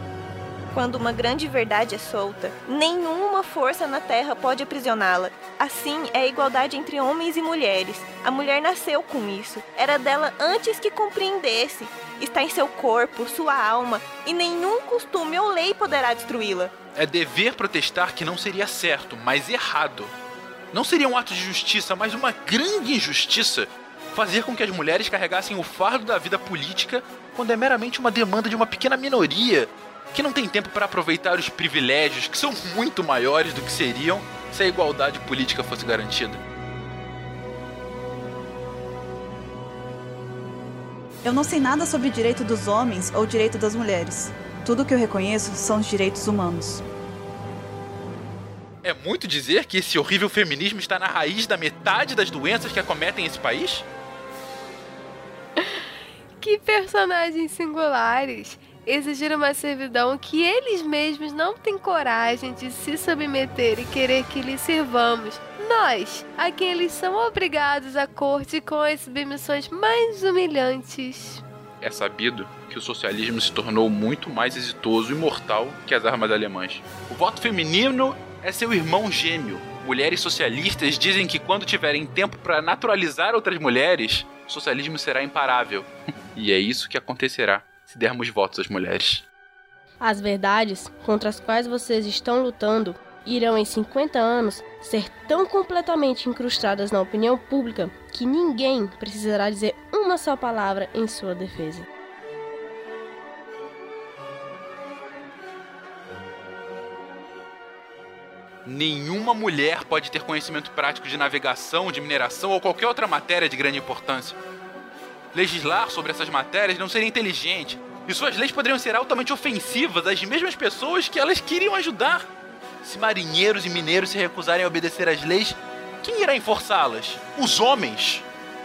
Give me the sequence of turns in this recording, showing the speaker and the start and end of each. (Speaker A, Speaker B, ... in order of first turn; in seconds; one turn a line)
Speaker A: 0.7-16.7
Speaker B: 16.9-20.1
Speaker B: 20.7-36.4
Speaker C: 41.3-46.7
Speaker B: 48.8-53.9
Speaker D: 56.4-71.4
Speaker B: 71.8-89.3
Speaker E: 90.0-101.9
Speaker B: 108.7-114.4
Speaker B: 115.3-122.3
Speaker B: 122.8-128.3